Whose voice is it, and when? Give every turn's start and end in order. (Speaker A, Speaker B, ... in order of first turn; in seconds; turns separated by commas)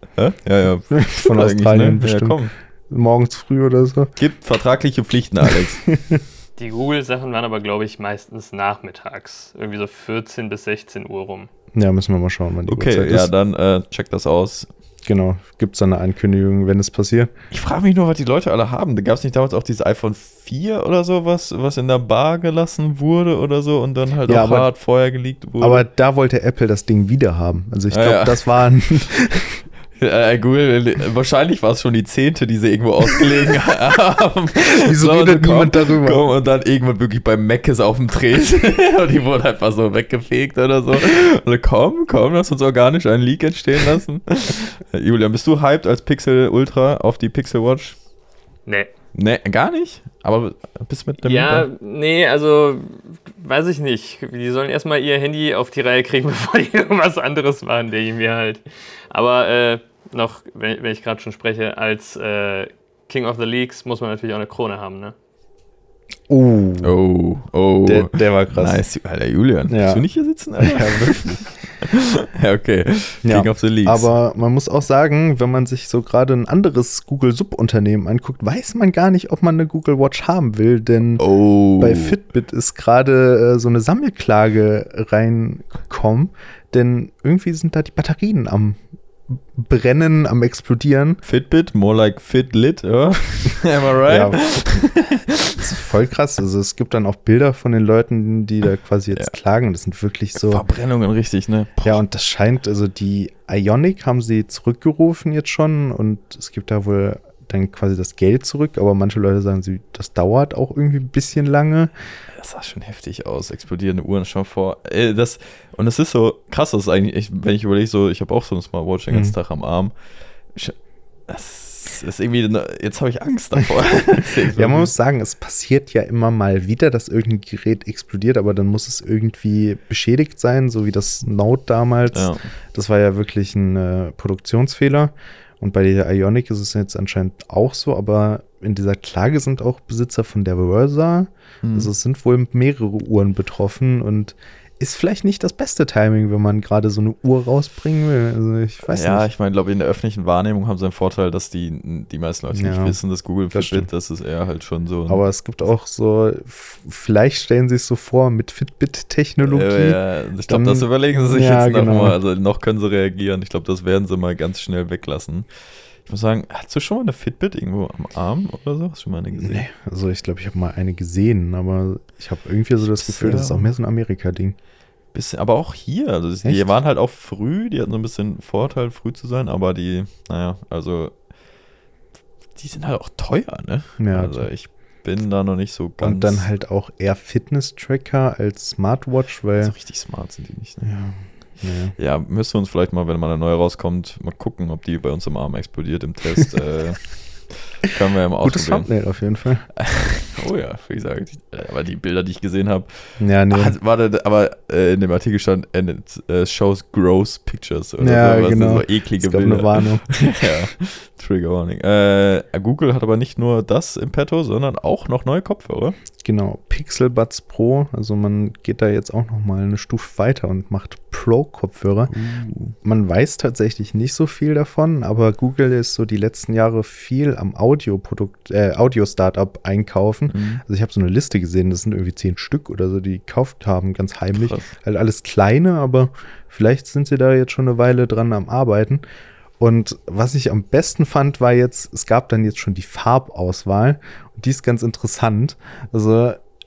Speaker A: 0.2-2.5, Speaker B: 0.9-4.1, Speaker A: 4.2-5.8, Speaker B: 5.5-6.2, Speaker C: 6.6-11.5, Speaker B: 11.8-13.3, Speaker A: 12.7-14.7, Speaker B: 15.1-17.3, Speaker A: 17.5-25.9, Speaker B: 24.3-24.7, Speaker B: 25.6-29.6, Speaker A: 27.9-28.6, Speaker A: 30.0-48.0, Speaker B: 34.8-36.2, Speaker A: 49.1-51.7, Speaker C: 51.2-65.1, Speaker B: 66.3-66.9, Speaker A: 66.8-74.1, Speaker B: 67.9-68.8, Speaker B: 69.7-70.0, Speaker B: 70.6-71.5, Speaker B: 73.2-91.2, Speaker A: 81.2-82.2, Speaker A: 91.2-95.6, Speaker B: 94.0-94.9, Speaker B: 95.6-100.6, Speaker A: 100.3-102.0, Speaker B: 101.8-111.9, Speaker A: 112.3-120.0, Speaker B: 119.1-119.4, Speaker A: 121.3-124.9, Speaker B: 124.2-149.3, Speaker A: 132.1-132.5, Speaker A: 141.6-141.9, Speaker A: 148.9-155.2, Speaker B: 152.5-153.0, Speaker B: 153.5-153.9, Speaker B: 155.1-162.2, Speaker A: 159.4-165.5, Speaker A: 166.1-169.7, Speaker B: 169.4-174.6, Speaker A: 173.0-173.7, Speaker A: 175.1-181.2, Speaker B: 176.4-176.7, Speaker A: 182.6-186.5, Speaker B: 184.0-184.5, Speaker B: 186.0-189.8, Speaker A: 189.6-190.9, Speaker B: 190.8-191.9, Speaker A: 192.0-198.9, Speaker B: 198.4-199.7, Speaker A: 199.8-216.0, Speaker B: 203.2-203.8, Speaker B: 208.0-210.5, Speaker B: 216.2-239.0, Speaker A: 222.1-222.7, Speaker A: 230.3-230.6, Speaker A: 234.3-234.7, Speaker B: 239.6-246.4